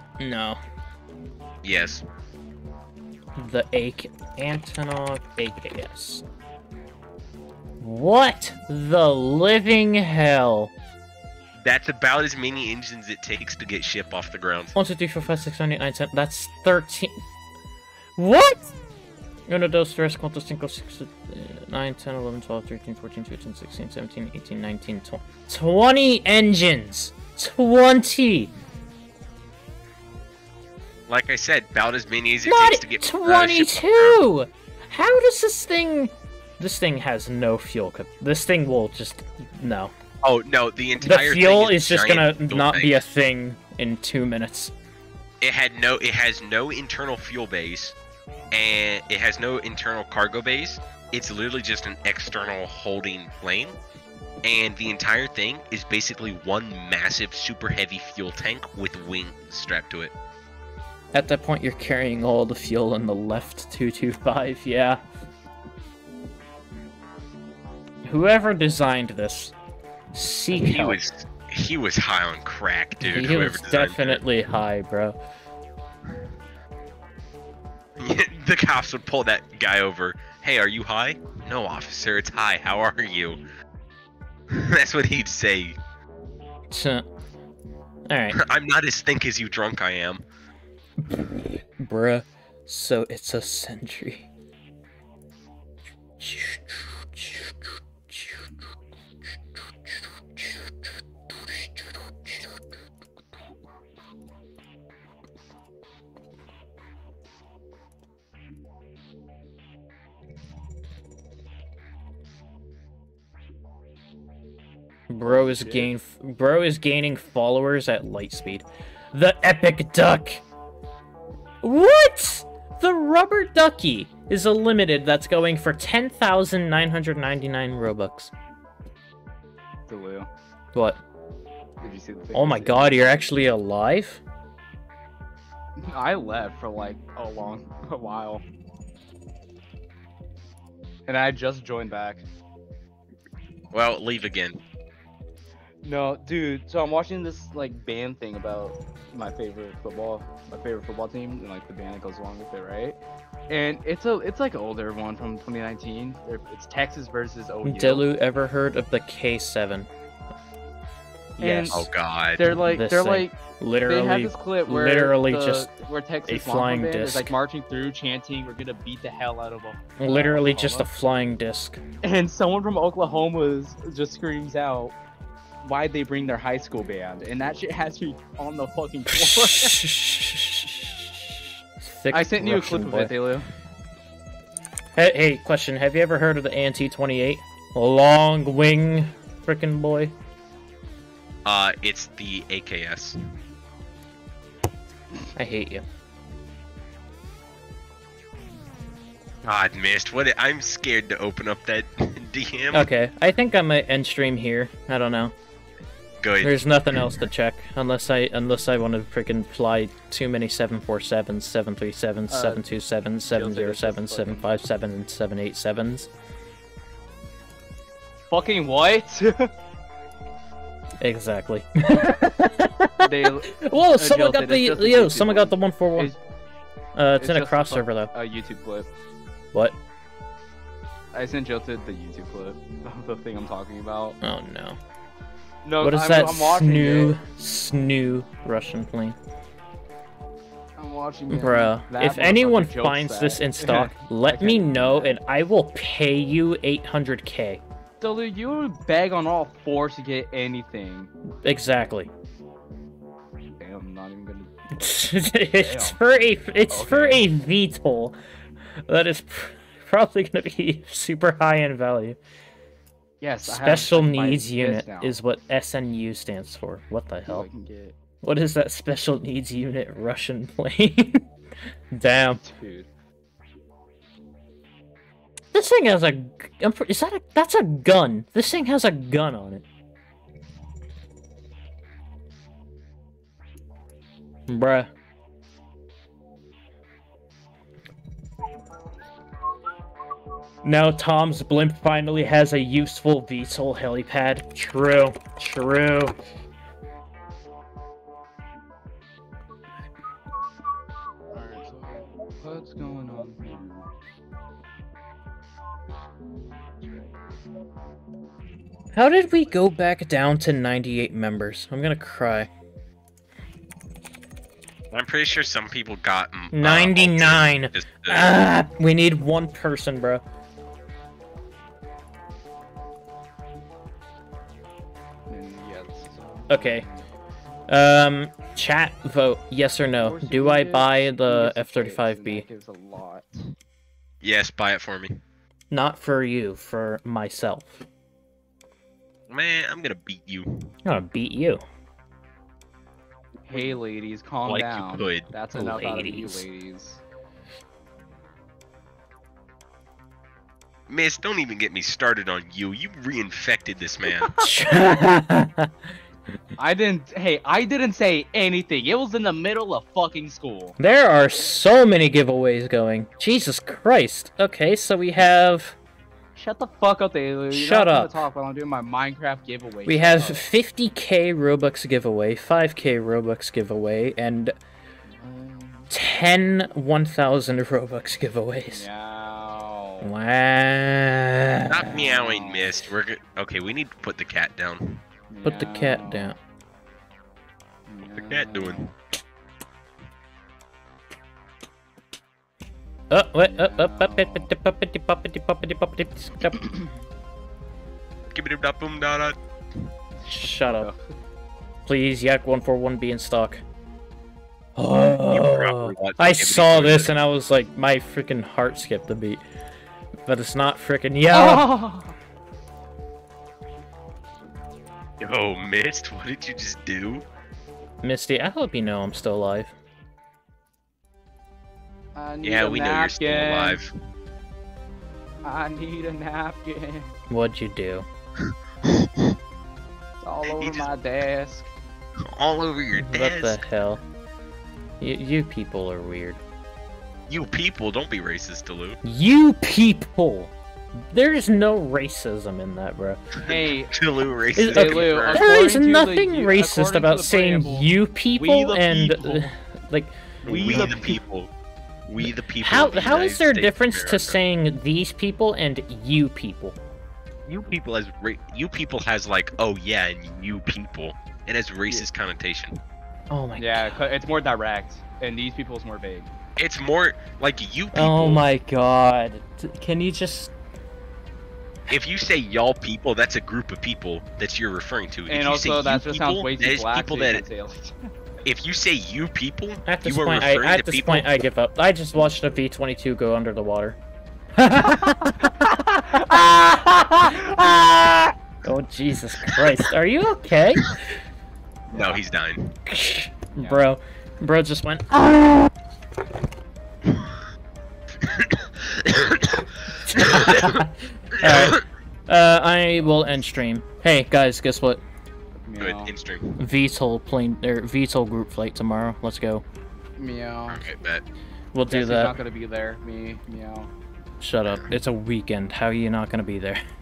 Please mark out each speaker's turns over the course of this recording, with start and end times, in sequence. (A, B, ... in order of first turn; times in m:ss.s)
0:00.2-0:00.6 A
0:01.6-0:02.0 B
0:03.4-0:06.2 A
0:07.8-0:10.7 A
0:11.6-0:14.7 B
0:14.8-0:17.2 A
0:18.2-0:18.7 A
0:19.5-0:28.5 A
0:31.1-0:34.2 B
0:32.5-0:39.9 A
0:40.2-0:43.0 B
0:41.0-0:44.7 A
0:45.4-0:48.0 B
0:48.5-0:53.8 B
0:54.4-1:00.1 B
1:01.1-1:05.0 A
1:08.0-1:09.6 A
1:10.1-1:11.0 A
1:10.5-1:14.2 B
1:13.0-1:15.2 A
1:18.0-1:23.4 B
1:24.5-1:25.8 B
1:26.7-1:27.1 A
1:28.1-1:28.4 A
1:28.4-1:30.2 B
1:31.0-1:34.3 A
1:36.2-1:38.4 A
1:39.9-1:42.4 A
1:55.1-2:00.4 A
1:55.3-1:55.9 C
2:01.6-2:08.3 A
2:09.9-2:10.3 C
2:10.7-2:11.0 A
2:11.8-2:13.0 C
2:12.3-2:14.2 A
2:15.8-2:18.4 C
2:21.1-2:22.2 C
2:23.7-2:24.6 B
2:25.8-2:33.0 C
2:33.5-2:38.1 C
2:37.6-2:39.9 A
2:41.4-2:41.8 A
2:41.4-2:41.8 C
2:41.7-2:42.4 B
2:42.4-2:50.9 C
2:42.6-2:45.7 A
2:46.3-2:47.3 A
2:50.0-2:51.8 A
2:52.0-2:54.9 C
2:55.6-2:59.8 C
2:59.1-3:03.1 A
3:02.1-3:03.5 C
3:05.0-3:10.2 A
3:11.4-3:13.2 B
3:15.4-3:15.8 A
3:19.4-3:22.9 B
3:22.7-3:25.4 A
3:26.2-3:26.6 B
3:26.4-3:36.1 A
3:32.3-3:32.6 C
3:33.3-3:34.5 C
3:38.3-3:39.5 C
3:41.0-3:46.2 A
3:43.0-3:46.2 C
3:47.0-3:48.1 A
3:47.2-3:48.9 C
3:51.1-3:54.2 C
3:54.2-3:54.8 A
3:55.6-3:57.2 C
3:55.8-3:59.2 A
4:00.8-4:05.2 C
4:01.3-4:07.6 A
4:08.0-4:11.1 C
4:11.4-4:12.1 A
4:13.6-4:14.5 C
4:14.8-4:18.2 A
4:15.5-4:16.0 C
4:16.7-4:17.3 C
4:18.9-4:22.2 A
4:23.2-4:25.2 C
4:23.4-4:27.5 A
4:27.3-4:28.0 C
4:28.2-4:31.2 A
4:31.9-4:32.4 A
4:32.4-4:32.9 C
4:35.5-4:39.6 A
4:44.5-4:44.9 A
4:50.6-4:56.2 A
5:01.3-5:03.8 C
5:08.9-5:12.5 A
5:14.9-5:18.3 B
5:16.5-5:20.2 A
5:25.3-5:27.1 C
5:26.5-5:26.8 A
5:27.7-5:32.4 A
5:30.0-5:33.5 C
5:34.2-5:35.2 B
5:35.7-5:37.8 A
5:39.3-5:40.7 B
5:40.8-5:41.6 A
5:43.5-5:47.0 C
5:43.5-5:43.8 B
5:44.4-5:45.3 B
5:45.6-5:46.5 A
5:50.9-5:54.3 B
5:54.2-5:54.5 C
5:54.4-5:55.7 A
5:56.6-6:00.8 C
6:00.8-6:05.8 A
6:06.4-6:10.4 C
6:07.5-6:08.2 A
6:09.9-6:14.6 A
6:15.1-6:15.9 C
6:15.9-6:18.9 A
6:18.7-6:20.1 C
6:20.0-6:22.1 A
6:21.7-6:25.0 B
6:21.8-6:22.8 C
6:25.3-6:26.3 C
6:25.4-6:26.4 A
6:27.9-6:28.9 C
6:28.2-6:28.8 B
6:33.1-6:36.7 A
6:33.5-6:34.5 C
6:36.6-6:36.9 C
6:38.3-6:39.4 B
6:40.2-6:41.0 C
6:40.4-6:40.9 A
6:41.9-6:43.6 A
6:44.8-6:49.4 A
6:45.3-6:47.1 B
6:50.2-6:51.6 A
6:51.3-6:52.1 C
6:55.2-6:57.2 B
6:58.0-6:59.8 A
7:02.2-7:03.8 C
7:02.4-7:03.9 B
7:05.4-7:07.1 C
7:07.3-7:08.1 A
7:08.4-7:09.4 B
7:10.2-7:11.7 C
7:10.4-7:10.9 B
7:12.2-7:13.6 B
7:13.0-7:14.0 A
7:15.0-7:16.4 A
7:17.3-7:19.0 B
7:19.0-7:23.2 A
7:23.4-7:25.4 B
7:23.4-7:23.9 C
7:24.6-7:31.1 A
7:24.7-7:27.9 C
7:28.4-7:29.4 B
7:30.4-7:31.2 C
7:30.5-7:31.5 B
7:32.1-7:34.4 B
7:32.6-7:36.8 A
7:37.5-7:42.8 B
7:43.3-7:44.0 A
7:43.6-7:46.3 C
7:46.6-7:48.4 B
7:47.9-7:50.5 A
7:51.9-7:57.4 B
7:55.3-7:58.1 C
7:58.4-8:01.3 B
7:59.9-8:04.0 A
8:04.6-8:11.0 A
8:11.9-8:12.8 B
8:12.9-8:15.7 A
8:13.6-8:13.9 C
8:17.1-8:17.4 B
8:18.2-8:20.8 B
8:20.1-8:25.0 A
8:21.4-8:21.8 B
8:25.6-8:26.1 C
8:25.8-8:26.6 B
8:26.6-8:29.6 A
8:30.2-8:30.9 C
8:30.7-8:31.2 B
8:31.7-8:32.4 A
8:31.9-8:33.9 C
8:34.4-8:36.8 A